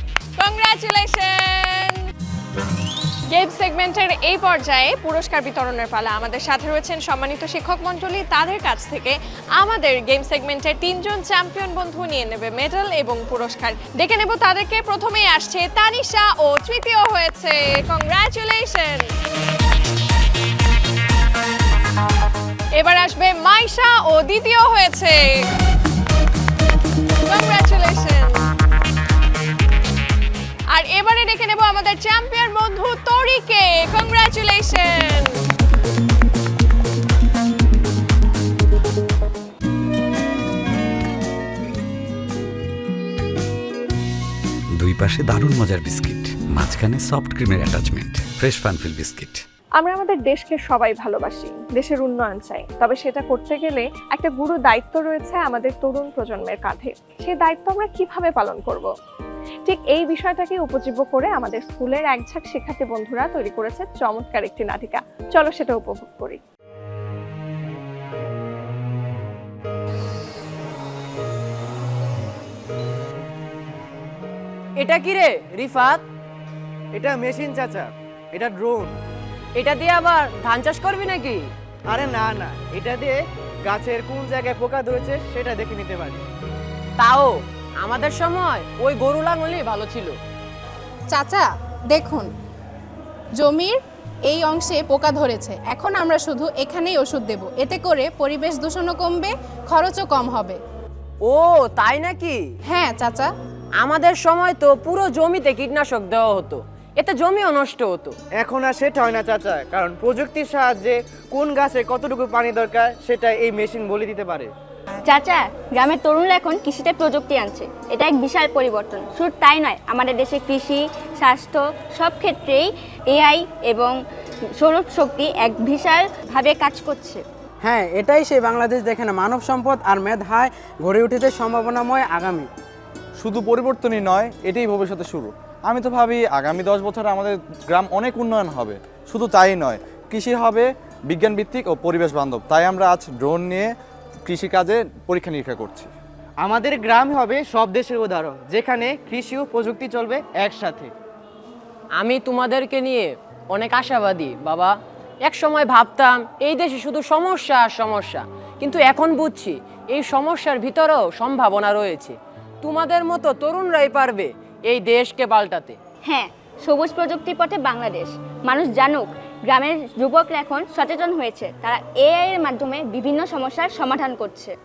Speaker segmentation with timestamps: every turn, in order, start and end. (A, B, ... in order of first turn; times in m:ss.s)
0:00.4-0:02.0 A
0:03.3-0:19.0 A
0:22.8-0:25.3 A
0:27.3-0:28.4 A
0:30.7-0:35.3 A
0:44.8-0:49.4 B
0:49.8-0:58.9 C
0:59.7-1:06.4 C
1:14.8-1:16.0 D
1:17.0-1:19.0 E
1:19.6-1:21.5 D
1:21.9-1:26.2 E
1:27.0-1:30.2 D
1:31.1-1:32.3 F
1:33.4-1:40.6 F
1:41.2-1:42.4 D
1:42.7-1:43.3 F
1:43.8-1:48.1 D
1:48.4-1:54.5 E
1:55.0-2:03.9 G
2:04.6-2:07.2 G
2:07.6-2:12.5 H
2:13.2-2:23.7 I
2:24.3-2:25.9 I
2:26.4-2:30.9 E
2:32.0-2:45.8 D
2:46.1-2:54.5 G